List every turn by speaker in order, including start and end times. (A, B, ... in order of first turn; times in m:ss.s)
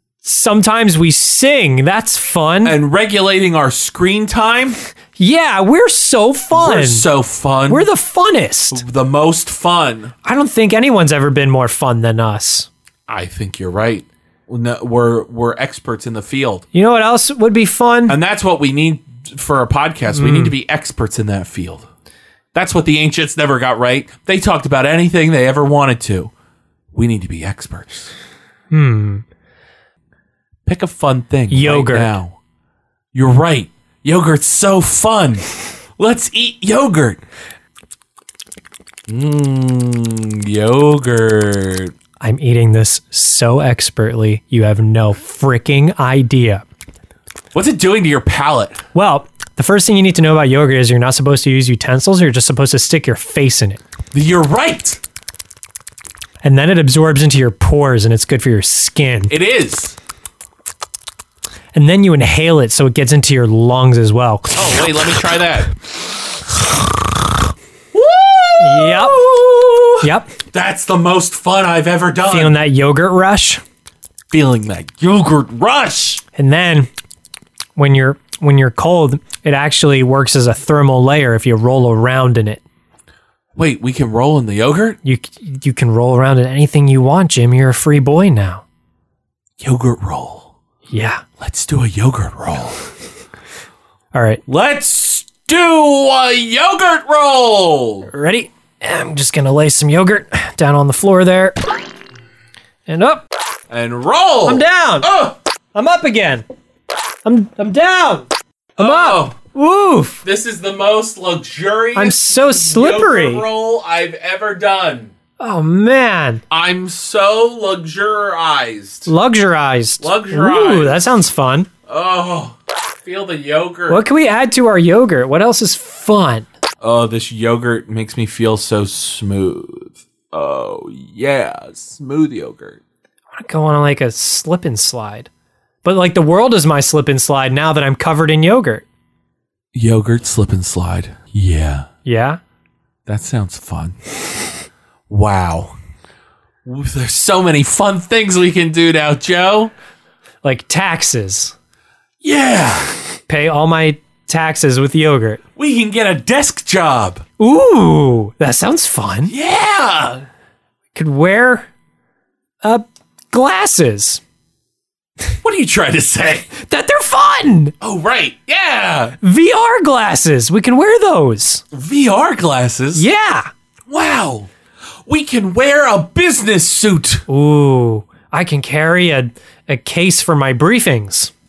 0:00.2-0:02.8 A
0:02.6-0:04.8 B
0:05.2-0:07.1 A
0:06.5-0:07.9 B
0:07.7-0:08.8 A
0:08.7-0:10.1 B
0:10.2-0:12.7 A
0:13.1-0:16.7 B
0:16.7-0:18.2 A
0:18.1-0:21.9 B
0:20.1-0:20.5 A
0:22.5-0:26.3 B
0:26.9-0:28.1 B
0:28.7-0:29.2 A
0:30.7-0:32.4 B
0:31.5-0:32.2 A
0:33.1-0:37.2 B
0:39.1-0:41.9 B
0:42.2-0:46.6 A
0:47.5-0:48.8 B
0:48.9-0:53.8 A
0:54.1-0:55.0 B
0:56.4-0:59.3 A
0:59.3-1:00.0 B
1:01.7-1:04.8 A
1:04.6-1:05.7 B
1:07.9-1:12.6 B
1:08.6-1:09.2 A
1:10.0-1:10.3 A
1:12.3-1:13.6 A
1:14.3-1:16.2 B
1:16.4-1:16.9 A
1:17.8-1:22.6 A
1:23.6-1:25.0 B
1:25.0-1:28.6 A
1:29.6-1:30.5 B
1:30.9-1:31.2 A
1:31.4-1:32.8 B
1:34.1-1:34.4 A
1:34.5-1:38.1 B
1:38.1-1:41.6 A
1:42.9-1:43.2 A
1:43.7-1:45.4 B
1:44.5-1:45.1 A
1:45.7-1:46.4 A
1:47.2-1:50.2 A
1:48.8-1:49.4 B
1:50.2-1:55.1 B
1:52.0-1:53.4 A
1:55.4-1:56.4 A
1:56.5-1:59.1 B
1:59.1-2:01.7 A
2:00.0-2:01.1 B
2:01.9-2:04.0 B
2:03.9-2:06.5 A
2:06.8-2:12.8 B
2:13.3-2:15.3 A
2:15.8-2:18.8 A
2:19.7-2:21.9 B
2:22.0-2:22.4 A
2:23.1-2:24.0 B
2:25.1-2:25.8 B
2:26.6-2:29.7 B
2:30.4-2:31.6 A
2:32.2-2:33.0 B
2:33.3-2:35.4 A
2:35.6-2:37.2 B
2:37.4-2:39.3 A
2:39.3-2:40.3 B
2:40.9-2:41.7 A
2:42.6-2:44.2 A
2:45.4-2:46.5 B
2:46.6-2:47.7 A
2:47.8-2:49.2 B
2:49.2-2:51.6 A
2:51.7-2:53.1 B
2:53.0-2:53.5 A
2:53.9-2:54.5 B
2:55.1-2:57.2 B
2:57.3-3:01.3 A